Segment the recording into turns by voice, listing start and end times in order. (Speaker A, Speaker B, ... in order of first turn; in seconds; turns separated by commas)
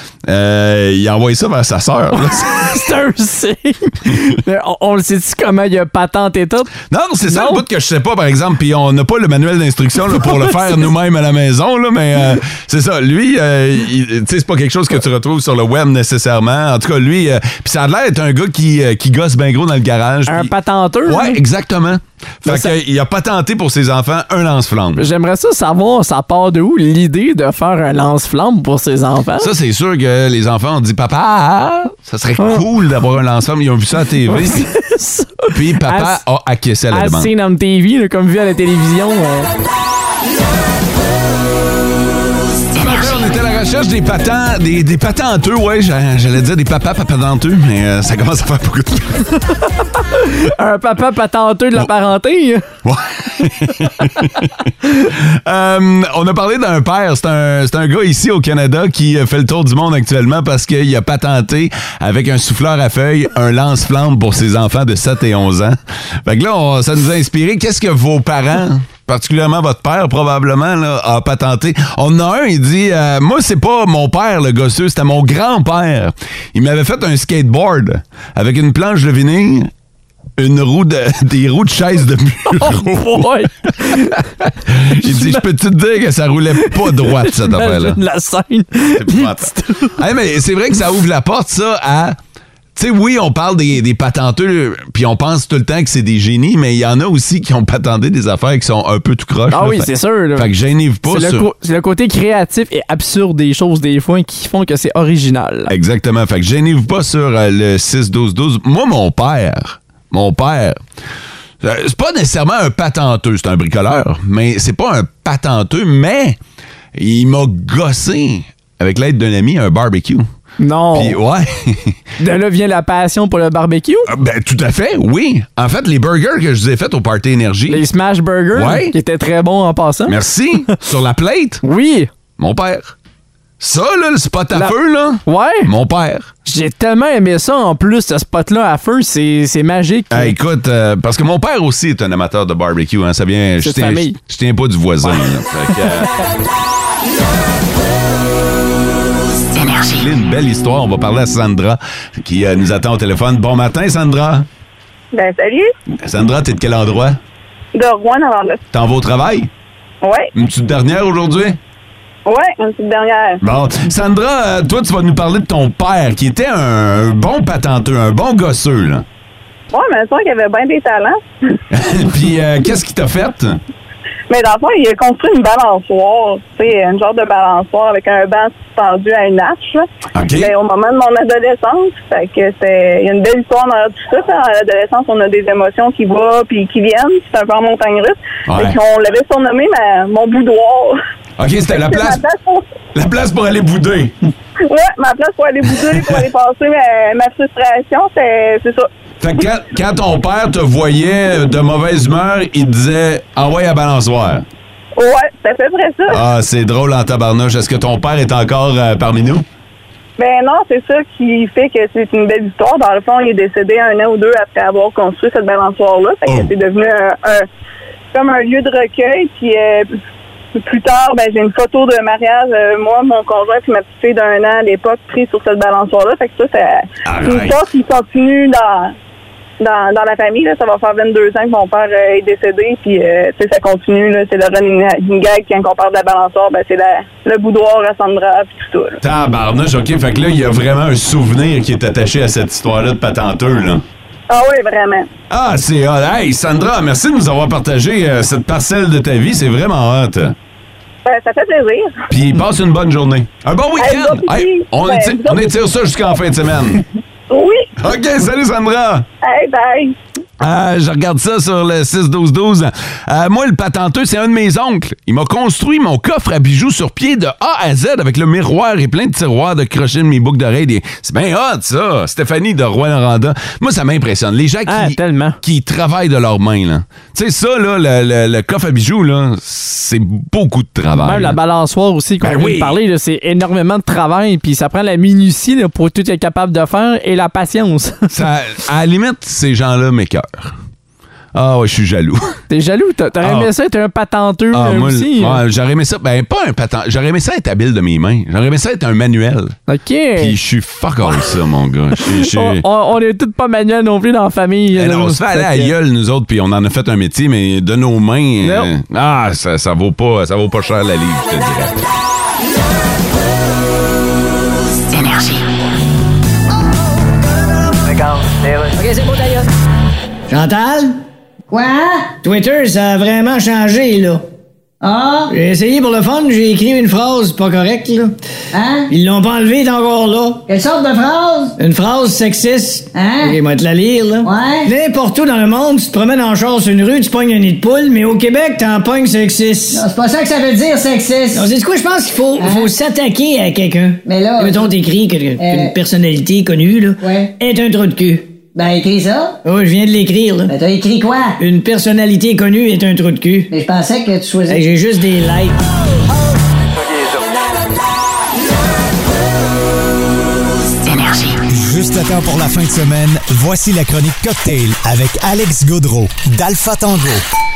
Speaker A: 0.2-2.8, Speaker B: 2.1-6.7, Speaker A: 6.9-20.5, Speaker B: 7.2-7.6, Speaker B: 20.3-21.4, Speaker A: 21.1-25.1, Speaker B: 22.4-22.7, Speaker B: 25.0-29.5, Speaker A: 29.4-34.7, Speaker B: 32.4-32.6, Speaker B: 34.3-36.2, Speaker A: 35.5-37.3, Speaker B: 36.9-39.5, Speaker A: 42.7-49.4, Speaker B: 49.9-52.6, Speaker A: 52.8-79.7, Speaker A: 80.4-88.0, Speaker B: 82.5-84.3, Speaker B: 84.9-85.4, Speaker B: 86.6-90.0, Speaker A: 89.0-92.2, Speaker A: 92.8-101.5, Speaker B: 99.5-100.5, Speaker B: 101.1-105.7, Speaker A: 105.7-110.8, Speaker A: 111.6-116.4, Speaker A: 116.9-120.2, Speaker B: 120.6-121.2, Speaker A: 120.9-122.0, Speaker B: 122.2-124.1, Speaker A: 124.1-127.8, Speaker B: 127.7-130.2, Speaker A: 128.5-128.9, Speaker A: 130.1-131.6, Speaker B: 131.6-132.1, Speaker A: 132.4-132.9, Speaker A: 133.6-136.3, Speaker B: 134.5-135.7, Speaker B: 136.4-140.3, Speaker A: 140.1-146.1, Speaker B: 143.6-144.2, Speaker A: 149.8-154.4, Speaker C: 155.1-155.7, Speaker A: 156.0-157.2, Speaker C: 157.7-158.6, Speaker A: 158.7-159.5, Speaker C: 160.0-160.3, Speaker A: 160.3-161.6, Speaker C: 162.2-163.4, Speaker A: 163.4-169.0, Speaker C: 169.7-171.2, Speaker A: 171.7-173.6, Speaker C: 174.3-191.0, Speaker A: 180.1-180.5, Speaker A: 188.5-188.8, Speaker A: 191.4-192.2, Speaker C: 191.7-192.7, Speaker A: 192.9-194.1, Speaker C: 194.7-198.9, Speaker A: 195.8-196.2, Speaker A: 199.2-204.4, Speaker C: 204.9-206.2, Speaker A: 206.1-209.4, Speaker C: 210.2-217.5, Speaker A: 216.2-216.5, Speaker C: 218.1-219.9, Speaker C: 220.6-228.9, Speaker A: 227.1-227.6, Speaker C: 229.6-239.0, Speaker A: 239.0-243.8, Speaker C: 244.3-245.1, Speaker A: 245.3-250.3, Speaker C: 251.0-251.9, Speaker A: 252.1-256.8, Speaker C: 253.8-255.6, Speaker C: 257.3-257.7, Speaker A: 257.8-259.1, Speaker C: 259.2-259.9, Speaker A: 260.4-281.4, Speaker B: 274.6-275.4, Speaker B: 281.0-288.1, Speaker A: 282.2-282.8, Speaker A: 288.1-290.5, Speaker A: 291.3-292.4, Speaker B: 292.5-295.4, Speaker A: 293.2-293.5, Speaker A: 294.5-299.6, Speaker B: 299.7-300.4, Speaker A: 300.2-302.6, Speaker B: 302.0-305.7, Speaker A: 304.7-311.8, Speaker B: 308.4-308.7, Speaker B: 318.7-319.4, Speaker D: 320.3-321.0, Speaker E: 321.5-322.1, Speaker D: 322.2-324.2, Speaker E: 324.8-325.3, Speaker D: 325.3-328.1, Speaker E: 328.5-328.9, Speaker D: 328.9-330.4, Speaker E: 330.5-331.6, Speaker D: 331.6-339.8, Speaker E: 332.9-333.4, Speaker E: 334.2-334.7, Speaker E: 339.7-341.5, Speaker D: 341.3-348.3, Speaker E: 342.4-342.7, Speaker E: 344.1-344.7, Speaker E: 345.4-345.7, Speaker E: 347.0-347.3, Speaker E: 348.5-349.4, Speaker D: 349.4-350.5, Speaker E: 350.5-351.4, Speaker D: 351.4-353.5, Speaker E: 353.5-354.6, Speaker D: 354.5-355.6, Speaker F: 361.4-367.2